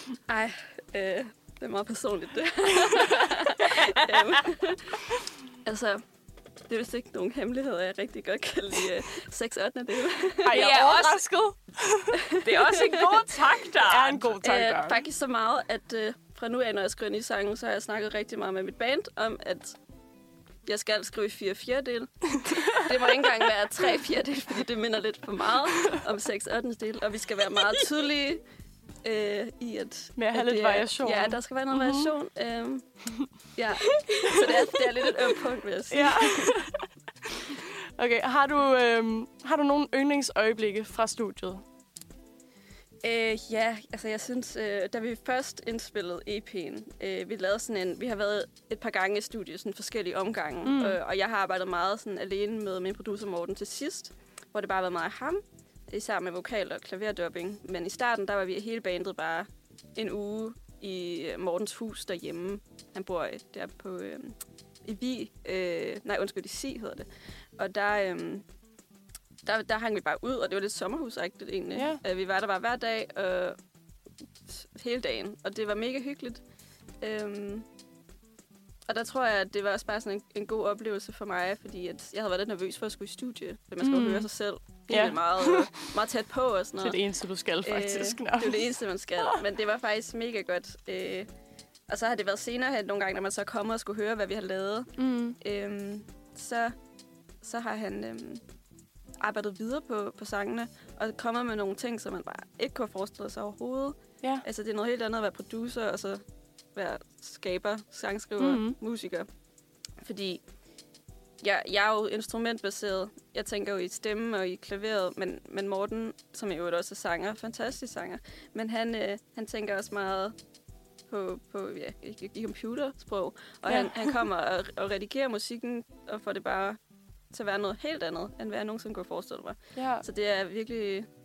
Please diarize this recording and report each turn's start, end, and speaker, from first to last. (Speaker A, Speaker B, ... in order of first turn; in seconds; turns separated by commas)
Speaker A: 0.3-6.0, Speaker A: 6.7-10.6, Speaker B: 10.4-12.3, Speaker C: 10.5-11.2, Speaker C: 12.4-14.7, Speaker B: 13.8-15.0, Speaker A: 14.4-19.8, Speaker A: 20.6-28.4, Speaker A: 29.0-36.5, Speaker B: 30.1-32.1, Speaker B: 35.9-36.8, Speaker B: 37.4-41.6, Speaker A: 43.0-68.4, Speaker B: 50.6-51.0, Speaker A: 69.4-73.6, Speaker B: 71.7-72.0, Speaker A: 74.5-76.4, Speaker A: 77.0-77.7, Speaker A: 78.9-91.3, Speaker B: 83.8-84.3, Speaker B: 84.9-85.9, Speaker B: 86.8-89.4, Speaker A: 91.9-96.8, Speaker B: 95.0-95.4, Speaker A: 97.4-98.4, Speaker A: 99.2-106.2, Speaker A: 106.7-109.3, Speaker B: 108.4-108.8, Speaker A: 110.0-110.4, Speaker A: 111.4-120.3, Speaker A: 121.1-131.1, Speaker B: 123.7-124.2, Speaker B: 129.7-130.0